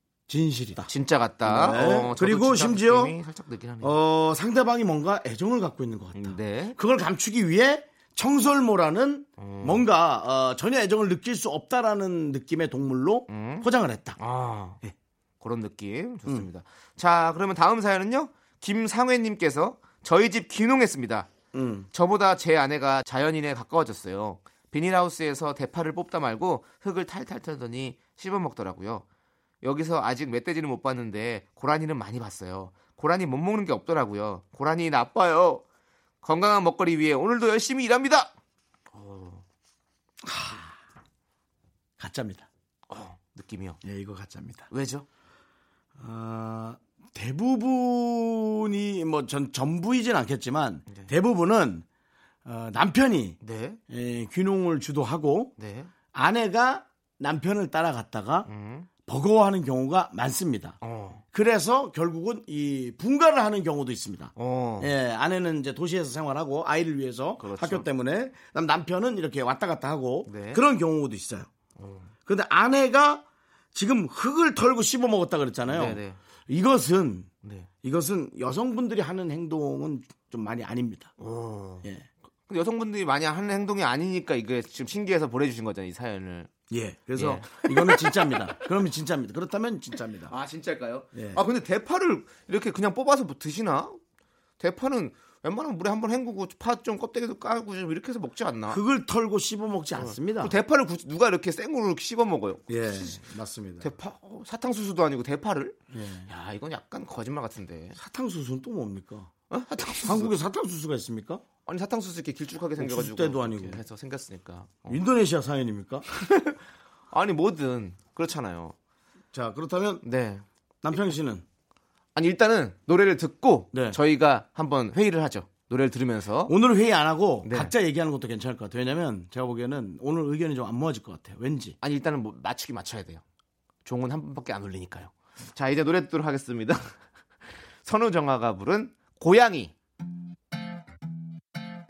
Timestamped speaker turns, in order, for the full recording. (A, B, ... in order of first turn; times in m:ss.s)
0:00.3-0:00.9 A
0:00.8-0:04.0 B
0:01.4-0:03.1 A
0:03.8-0:14.2 A
0:06.1-0:06.8 B
0:09.4-0:09.9 B
0:13.3-0:14.8 B
0:15.4-0:21.3 B
0:21.5-0:21.9 A
0:21.9-0:29.0 B
0:29.6-0:35.6 B
0:36.2-0:38.3 B
0:38.9-0:39.4 B
0:40.2-0:40.8 A
0:42.0-0:42.5 A
0:42.9-0:43.8 B
0:43.8-0:44.7 A
0:44.7-0:45.0 B
0:46.0-0:51.8 A
0:52.4-0:55.5 A
0:53.4-0:53.8 B
0:55.6-0:55.9 B
0:56.1-0:58.5 A
0:58.4-0:58.9 B
0:59.0-1:11.5 A
1:00.8-1:01.2 B
1:04.4-1:04.9 B
1:07.4-1:07.9 B
1:10.3-1:10.6 B
1:11.8-1:12.1 B
1:12.2-1:17.3 A
1:15.7-1:16.2 B
1:17.8-1:21.1 A
1:21.2-1:21.9 B
1:21.8-1:22.1 A
1:22.5-1:26.5 B
1:26.7-1:30.3 A
1:27.1-1:28.4 B
1:30.3-1:34.0 B
1:31.1-1:31.4 A
1:34.6-1:38.8 B
1:38.7-1:40.6 A
1:40.0-1:43.2 B
1:42.7-1:43.9 A
1:43.8-1:48.0 B
1:45.9-1:46.3 A
1:48.0-1:49.3 A
1:49.5-1:50.3 B
1:50.0-1:51.4 A
1:51.6-1:55.0 B
1:52.8-1:53.8 A
1:54.9-1:56.0 A
1:56.3-1:56.6 B
1:57.1-1:58.7 B
1:59.3-2:00.0 A
2:00.0-2:00.4 B
2:00.8-2:01.4 A
2:02.1-2:06.5 B
2:03.7-2:04.0 A
2:06.4-2:11.8 A
2:07.4-2:07.7 B
2:11.8-2:13.2 B
2:13.8-2:17.0 B
2:17.8-2:19.7 B